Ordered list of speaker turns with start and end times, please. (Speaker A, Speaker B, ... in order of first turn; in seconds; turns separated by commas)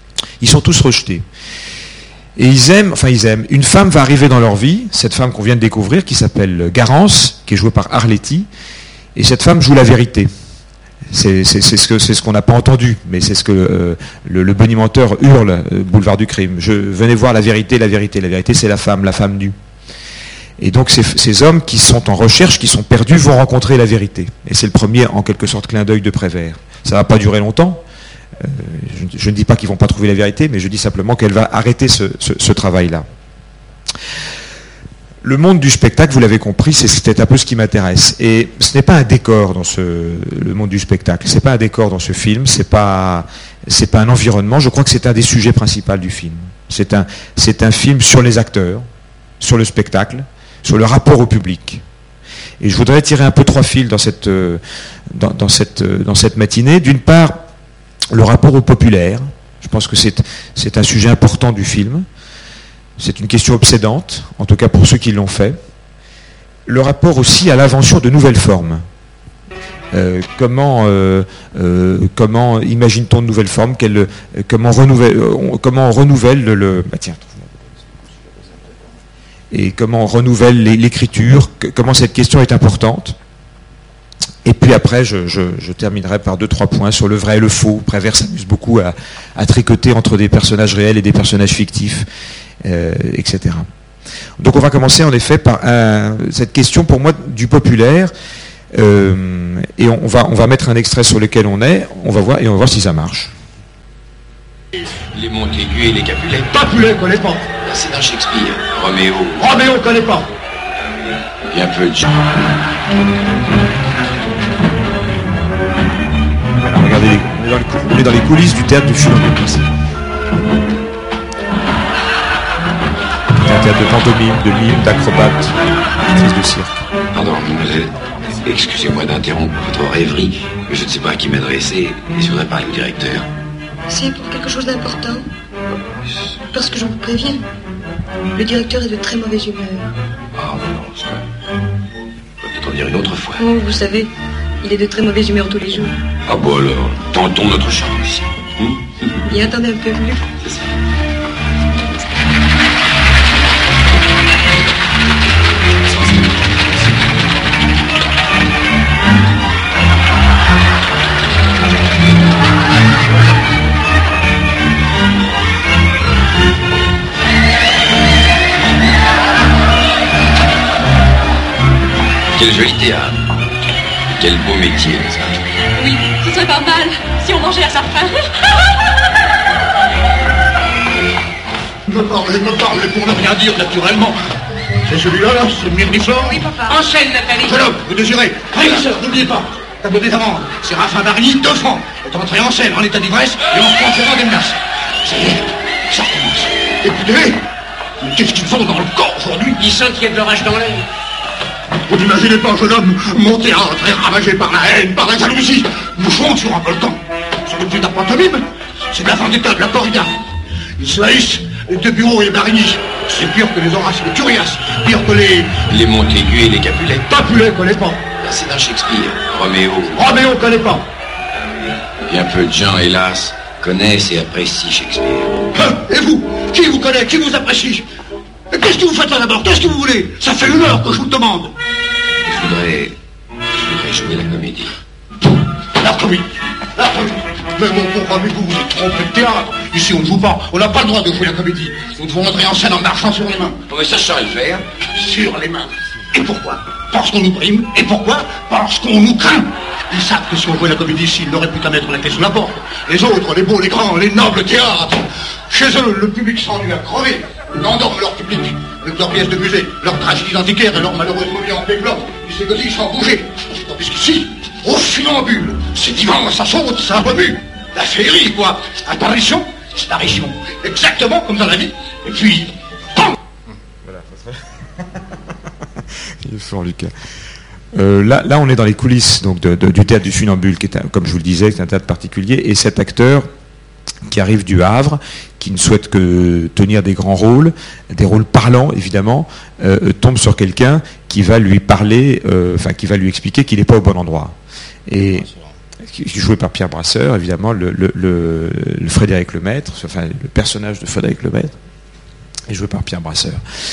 Speaker A: 0.4-1.2, Speaker A: 2.4-8.5, Speaker A: 9.2-10.3, Speaker A: 11.1-19.6, Speaker A: 20.6-27.8, Speaker A: 28.4-33.1, Speaker A: 35.2-48.9, Speaker A: 49.4-51.8, Speaker A: 52.6-57.5, Speaker A: 58.1-62.1, Speaker A: 63.0-65.6, Speaker A: 66.7-68.8, Speaker A: 69.9-77.4, Speaker A: 79.5-83.2, Speaker A: 84.5-92.1, Speaker A: 92.6-93.7, Speaker A: 94.4-98.1, Speaker A: 98.7-103.3, Speaker B: 105.1-106.5, Speaker C: 106.5-107.5, Speaker B: 107.6-109.7, Speaker C: 109.4-110.3, Speaker B: 111.5-112.2, Speaker A: 116.6-119.7, Speaker A: 123.4-125.6, Speaker A: 126.1-126.8, Speaker B: 127.1-133.3, Speaker D: 133.9-135.2, Speaker D: 136.5-137.4, Speaker D: 138.3-139.9, Speaker B: 140.3-141.2, Speaker B: 142.4-143.4, Speaker D: 143.4-144.1, Speaker D: 144.6-145.9, Speaker B: 146.3-148.8, Speaker D: 149.3-150.3, Speaker B: 172.3-173.2, Speaker B: 174.2-175.4, Speaker E: 175.8-178.2, Speaker C: 181.9-184.2, Speaker C: 184.9-197.4, Speaker C: 198.0-200.8, Speaker C: 201.9-210.2, Speaker C: 210.8-215.6, Speaker B: 215.7-217.1, Speaker C: 217.1-218.0, Speaker B: 218.2-220.2, Speaker C: 219.9-220.8, Speaker B: 222.1-225.5, Speaker C: 225.6-227.8, Speaker C: 228.5-231.5, Speaker B: 232.2-233.0, Speaker B: 233.6-234.8, Speaker C: 235.8-243.6, Speaker B: 243.7-244.6, Speaker C: 244.9-273.1, Speaker A: 273.9-274.3, Speaker A: 276.2-276.9, Speaker A: 277.7-283.3, Speaker A: 284.1-294.4, Speaker A: 294.9-295.3, Speaker A: 295.9-301.5, Speaker A: 302.5-303.4